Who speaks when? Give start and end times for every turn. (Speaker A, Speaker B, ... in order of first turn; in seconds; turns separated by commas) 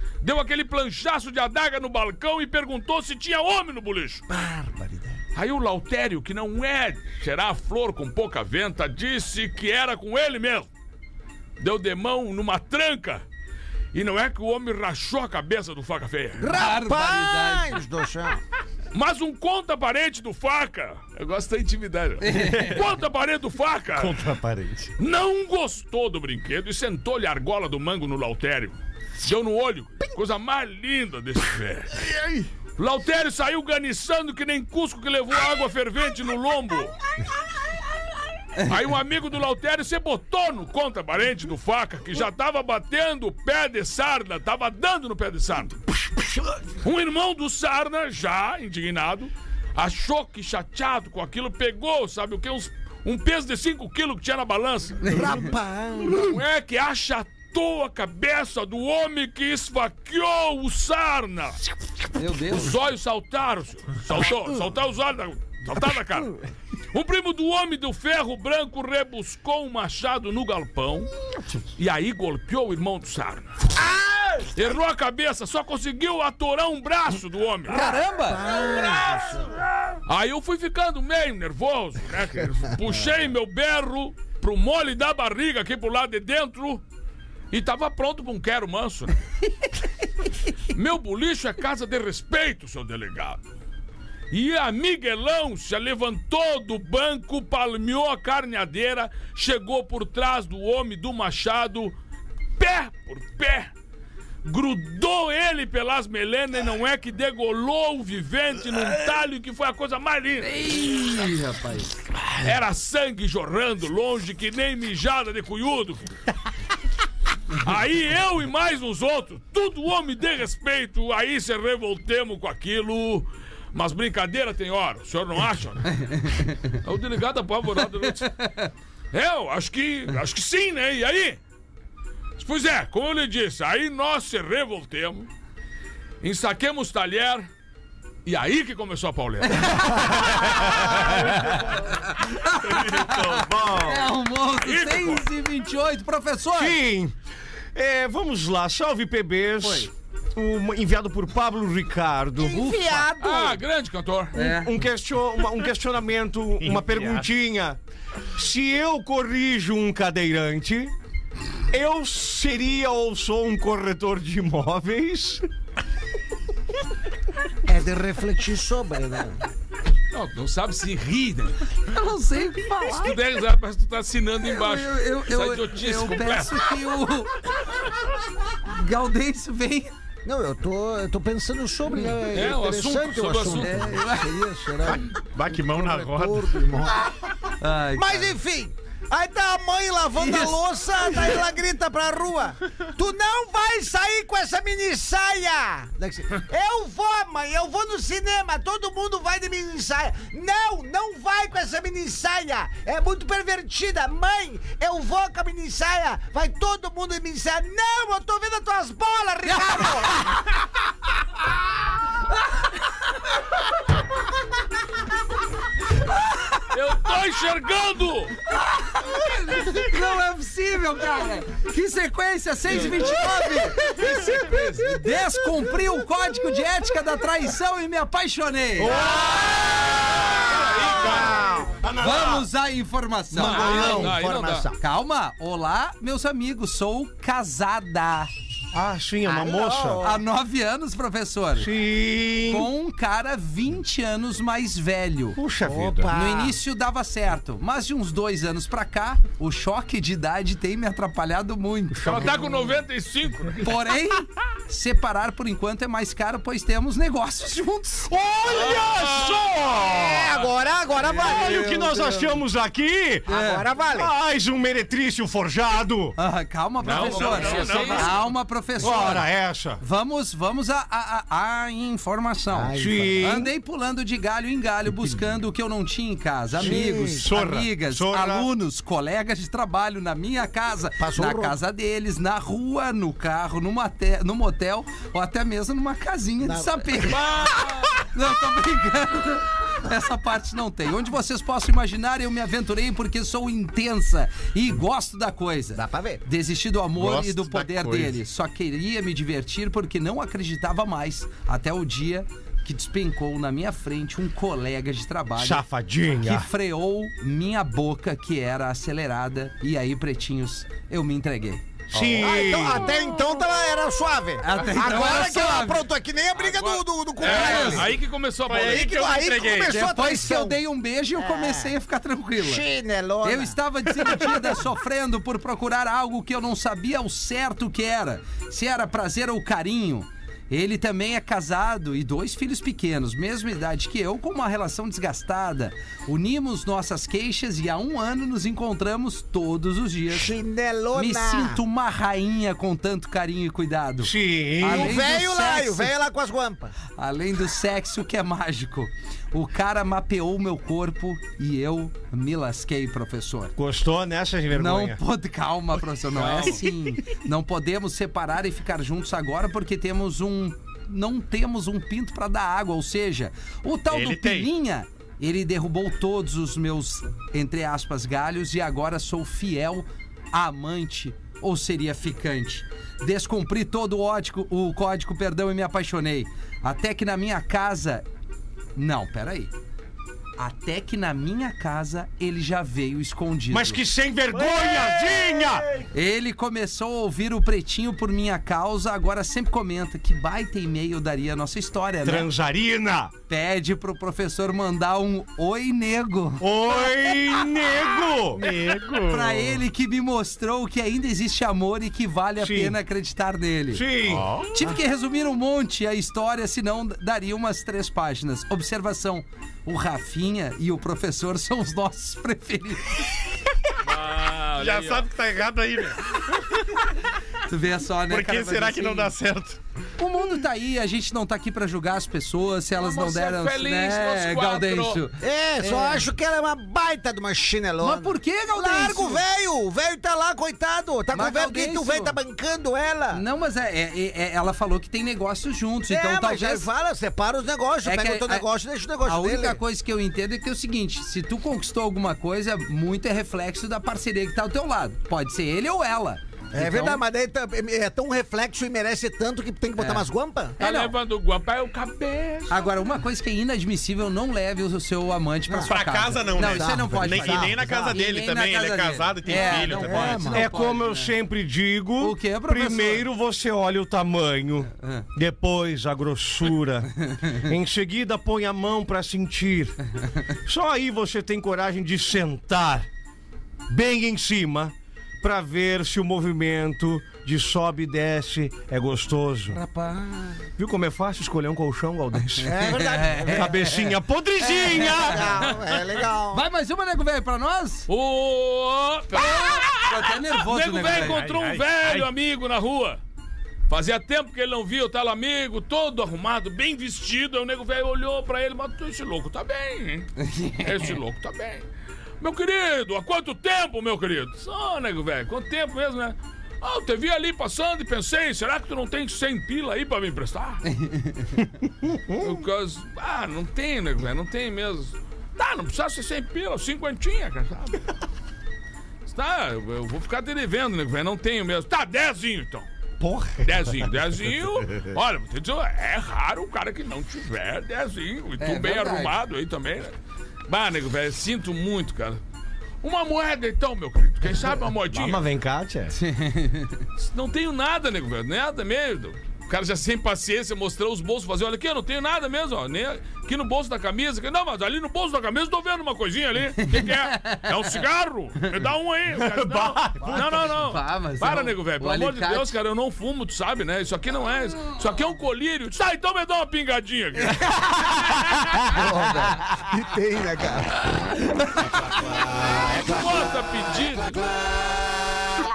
Speaker A: 0.2-4.2, Speaker B: 4.3-5.2, Speaker A: 5.3-10.7, Speaker A: 11.6-13.2, Speaker A: 13.9-16.5, Speaker B: 16.4-18.4, Speaker C: 16.4-17.8, Speaker A: 18.9-24.2, Speaker C: 22.2-22.8, Speaker D: 24.0-24.9, Speaker A: 25.0-32.1, Speaker A: 32.8-37.0, Speaker A: 38.6-45.8, Speaker A: 46.8-55.3, Speaker C: 55.0-55.5, Speaker B: 55.0-56.4, Speaker A: 56.1-61.6, Speaker C: 62.1-62.8, Speaker A: 62.5-66.4, Speaker A: 66.9-71.1, Speaker A: 71.8-73.5, Speaker B: 73.8-74.5, Speaker A: 74.5-77.9, Speaker C: 77.7-78.7, Speaker B: 77.7-79.6, Speaker A: 80.0-86.8, Speaker A: 87.5-89.2, Speaker A: 90.7-93.4, Speaker A: 94.3-101.9, Speaker A: 102.6-103.7, Speaker A: 104.4-110.6, Speaker C: 110.4-111.9, Speaker A: 112.3-116.2, Speaker A: 117.5-128.5, Speaker C: 126.0-126.6, Speaker C: 128.0-128.7, Speaker A: 129.1-131.4, Speaker A: 132.4-135.3, Speaker A: 136.2-137.5, Speaker A: 138.2-141.3, Speaker C: 139.4-140.9, Speaker D: 140.1-141.7, Speaker C: 141.8-146.8, Speaker D: 142.7-144.1, Speaker A: 144.5-145.3, Speaker D: 146.5-147.1, Speaker D: 147.7-152.9, Speaker C: 149.6-149.9, Speaker B: 152.4-153.6, Speaker C: 152.6-153.0, Speaker A: 153.2-154.3, Speaker C: 154.3-154.7, Speaker D: 154.3-157.8, Speaker E: 156.6-157.3, Speaker D: 158.3-160.9, Speaker D: 161.7-165.4, Speaker B: 167.6-169.4, Speaker A: 170.1-171.6, Speaker C: 171.8-173.2, Speaker A: 172.8-176.8, Speaker C: 174.4-177.4, Speaker C: 178.6-179.9, Speaker B: 180.2-210.5, Speaker A: 182.3-184.0, Speaker C: 183.6-184.3, Speaker E: 184.8-186.6, Speaker C: 187.6-188.4, Speaker C: 190.2-191.4, Speaker A: 216.7-218.4, Speaker C: 218.5-229.0, Speaker A: 222.7-223.0, Speaker D: 228.8-232.5, Speaker A: 230.1-231.4, Speaker B: 231.1-231.7, Speaker C: 232.0-234.1, Speaker D: 233.4-234.1, Speaker A: 233.4-234.7, Speaker B: 233.4-234.8, Speaker C: 234.8-238.3, Speaker D: 238.7-240.0, Speaker B: 239.2-240.2, Speaker C: 240.0-241.7, Speaker D: 241.6-242.7, Speaker C: 242.4-245.4, Speaker D: 245.3-246.1, Speaker B: 245.6-246.6, Speaker C: 246.1-252.5, Speaker D: 251.9-252.4, Speaker A: 252.0-253.7, Speaker C: 253.6-258.1, Speaker D: 258.1-260.4, Speaker A: 258.5-259.5, Speaker B: 259.9-262.1, Speaker D: 261.0-263.3, Speaker C: 261.1-262.2, Speaker C: 263.2-263.6, Speaker B: 263.3-264.1, Speaker D: 263.9-266.1, Speaker C: 266.2-305.6, Speaker E: 266.8-268.2, Speaker A: 266.8-268.1, Speaker D: 268.8-269.8, Speaker B: 272.5-273.4, Speaker D: 272.7-273.5, Speaker B: 276.6-277.3, Speaker D: 276.6-278.5, Speaker B: 281.0-281.6, Speaker B: 286.4-287.4, Speaker A: 287.1-287.9, Speaker B: 295.7-296.2, Speaker E: 296.9-298.2, Speaker D: 305.4-306.5, Speaker C: 306.2-311.6, Speaker D: 311.9-312.9, Speaker B: 312.1-317.9, Speaker C: 314.4-315.9, Speaker A: 316.3-319.1, Speaker E: 317.2-317.8, Speaker C: 317.3-317.9, Speaker E: 318.4-319.8, Speaker B: 318.5-320.6, Speaker C: 319.7-322.6, Speaker B: 321.2-321.7, Speaker B: 322.4-323.6, Speaker C: 323.2-340.4, Speaker B: 324.1-324.3, Speaker B: 340.1-341.6, Speaker C: 340.9-345.9, Speaker D: 344.0-345.0, Speaker B: 344.6-346.7, Speaker C: 346.9-353.5, Speaker D: 353.6-355.0, Speaker C: 354.5-378.0, Speaker A: 356.1-356.6, Speaker E: 363.9-364.5, Speaker C: 378.8-379.5, Speaker C: 380.4-383.8, Speaker D: 383.5-385.7, Speaker E: 384.3-385.8, Speaker C: 385.9-392.3, Speaker D: 392.0-393.1, Speaker C: 393.3-397.3, Speaker D: 396.4-398.4, Speaker E: 398.3-399.6, Speaker C: 398.9-403.9, Speaker D: 402.4-402.8, Speaker D: 403.7-404.3, Speaker E: 404.0-404.6, Speaker C: 404.5-413.1, Speaker A: 413.8-415.1, Speaker E: 414.6-416.8, Speaker C: 417.5-419.1, Speaker E: 418.1-419.6, Speaker C: 420.0-426.1, Speaker A: 422.8-425.0, Speaker B: 425.2-433.2, Speaker C: 427.8-429.2, Speaker C: 431.1-432.2, Speaker C: 433.1-436.7, Speaker B: 435.9-439.6, Speaker C: 437.8-438.4, Speaker C: 439.0-447.0, Speaker B: 446.5-450.6, Speaker C: 449.8-450.1, Speaker C: 450.6-450.9, Speaker A: 450.6-452.6, Speaker C: 452.5-461.2, Speaker B: 455.5-455.7, Speaker E: 455.6-460.3, Speaker B: 456.3-457.6, Speaker B: 459.3-460.5, Speaker D: 460.2-469.8, Speaker C: 462.0-463.1, Speaker D: 470.4-472.9, Speaker D: 473.7-479.6, Speaker B: 479.5-480.4, Speaker D: 480.6-485.4, Speaker C: 482.4-483.9, Speaker B: 482.4-483.7, Speaker C: 484.4-485.4, Speaker B: 484.6-486.4, Speaker C: 486.3-487.9, Speaker A: 487.9-493.0, Speaker C: 489.1-491.2, Speaker E: 490.9-492.1, Speaker A: 493.7-501.6, Speaker C: 500.2-500.9, Speaker A: 502.2-510.7, Speaker C: 510.7-511.4, Speaker A: 512.1-517.9, Speaker A: 519.0-522.7, Speaker D: 523.0-523.7, Speaker A: 523.4-529.9, Speaker C: 528.4-529.2, Speaker A: 530.5-532.2, Speaker A: 532.8-535.2, Speaker D: 534.9-535.9, Speaker C: 535.9-536.8, Speaker A: 537.0-557.5, Speaker C: 546.6-547.5, Speaker D: 549.8-550.1, Speaker C: 550.1-552.5, Speaker C: 557.2-557.6, Speaker B: 558.5-561.1, Speaker C: 558.7-559.4, Speaker A: 562.5-564.3